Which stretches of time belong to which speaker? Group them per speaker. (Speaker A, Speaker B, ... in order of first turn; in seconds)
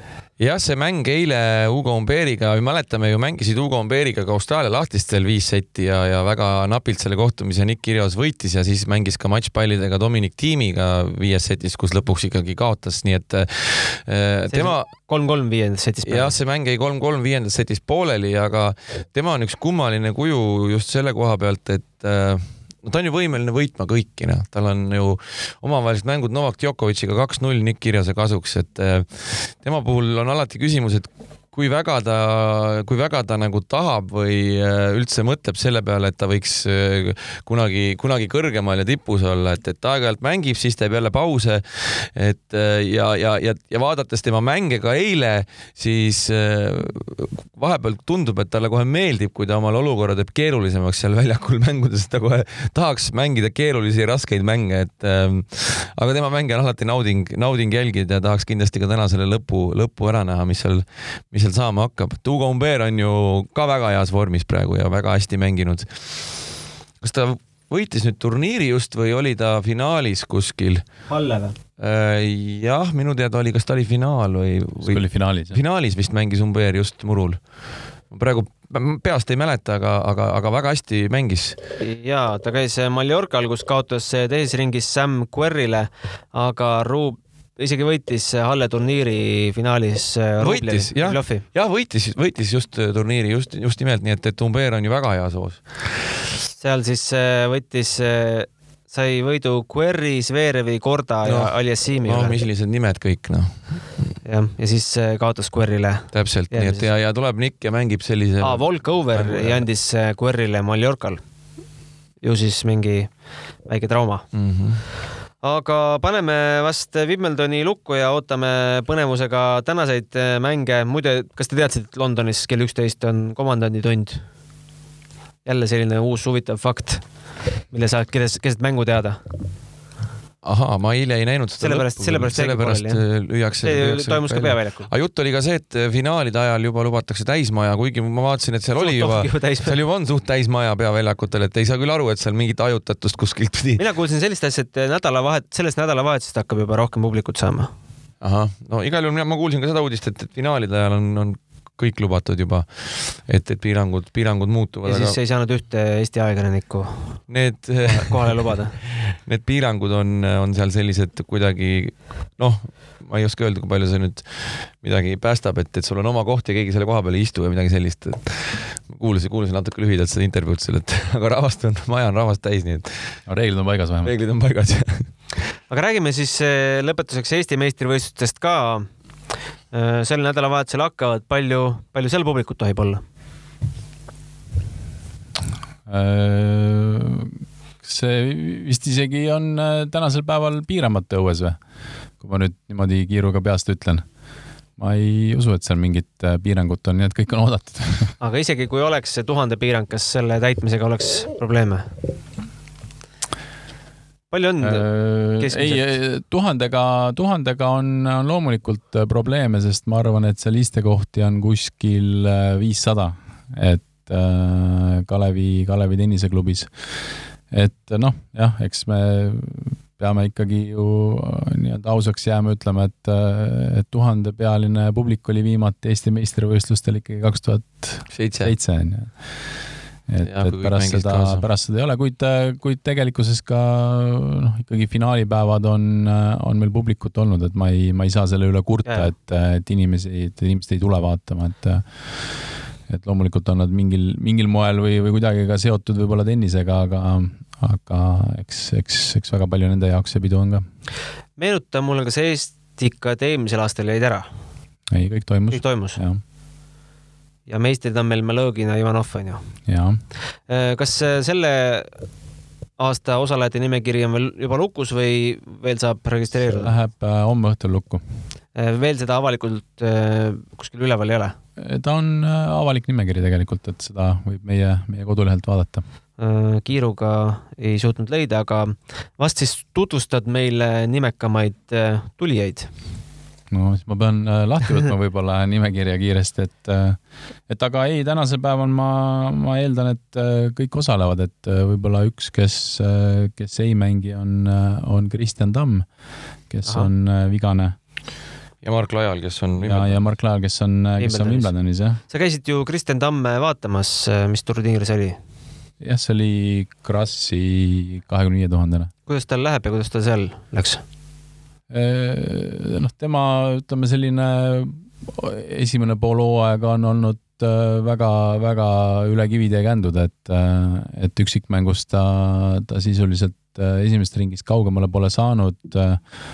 Speaker A: 0.4-14.9, 16.0-70.8, 71.8-77.4, 78.1-81.6, 90.4-96.0, 101.2-103.9, 106.1-109.6, 114.3-114.8, 130.4-143.8, 148.2-155.2, 157.3-173.2, 174.0-175.5, 228.1-228.5, 230.2-231.4, 298.6-300.0
Speaker B: 14.5-16.4, 71.1-71.5, 81.8-91.4, 96.6-102.3, 104.2-106.9, 108.4-111.2, 112.2-113.1, 113.6-114.2, 115.4-124.2, 125.4-127.1, 127.7-129.2, 131.6-133.0, 133.6-134.9, 138.8-139.7, 143.8-147.7, 154.8-157.3, 157.8-158.7, 175.7-178.9, 179.7-183.0, 198.2-201.9, 204.3-204.8, 205.4-205.9, 238.8-239.1, 251.4-254.3, 255.5-256.0, 257.5-259.4, 260.5-261.9, 262.8-266.7, 268.5-271.4, 276.2-282.7, 301.0-301.5, 302.1-305.2, 309.1-310.8
Speaker C: 74.8-75.6, 173.3-174.1, 185.9-191.6, 192.2-194.1, 194.8-198.1, 204.6-216.9, 217.5-229.2, 230.1-242.2, 242.9-250.6, 254.9-256.2, 259.7-260.0, 266.5-268.0, 271.6-275.8, 283.5-295.9, 296.5-297.7, 299.6-302.0, 305.8-308.9, 311.7-326.0